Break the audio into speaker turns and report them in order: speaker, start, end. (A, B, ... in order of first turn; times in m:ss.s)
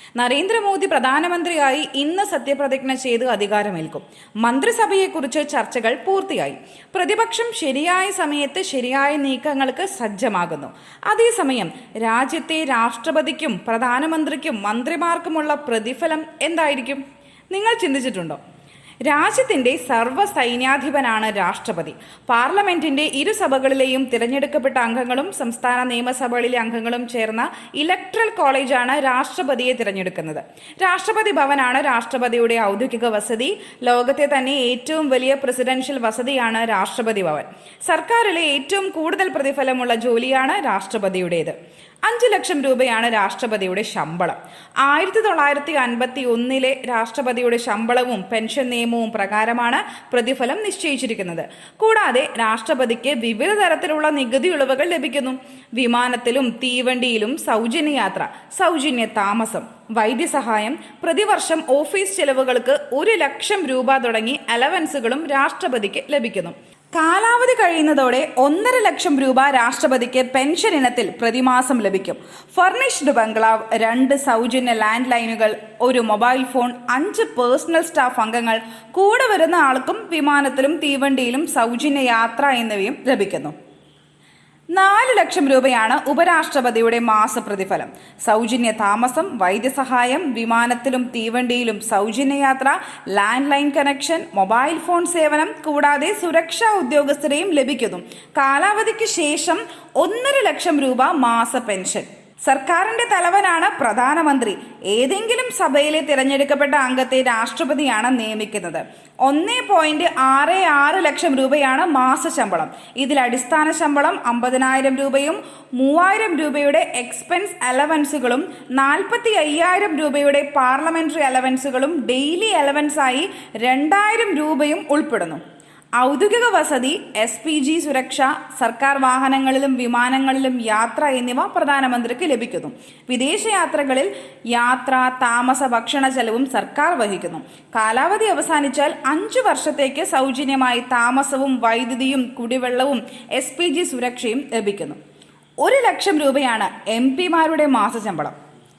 0:00.2-0:18.4 A
0:19.0-1:23.5 A
1:24.7-2:05.4 A
2:06.0-2:25.0 A
2:25.6-2:28.4 A